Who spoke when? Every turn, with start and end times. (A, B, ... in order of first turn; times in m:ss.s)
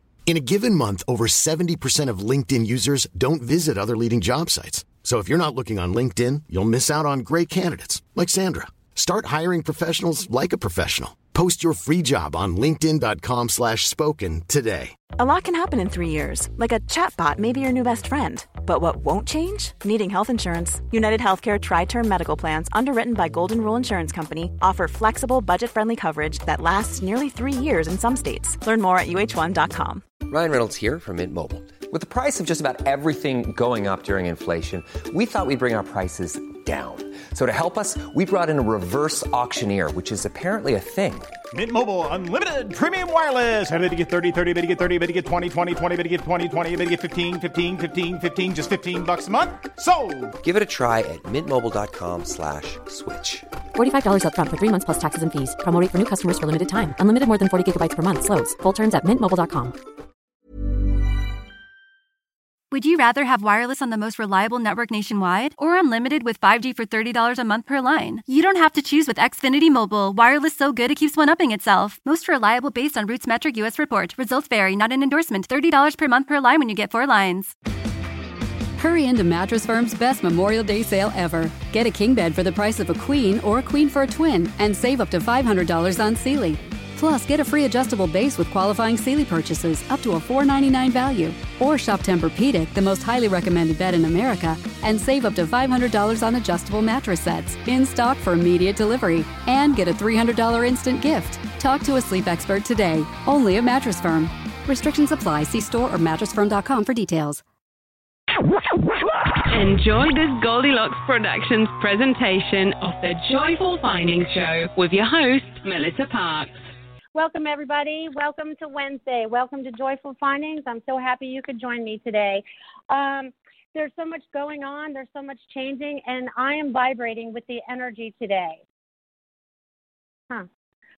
0:00.3-0:14.9 A
0:15.2-0:30.0 B
0:30.2-0:41.3 C
0:41.5-0:50.3 D
0:50.4-0:53.5 C
0:53.7-0:59.7 E
1:02.7-1:17.5 F
1:18.8-1:47.4 G
1:49.5-1:56.5 H
1:57.1-2:08.6 I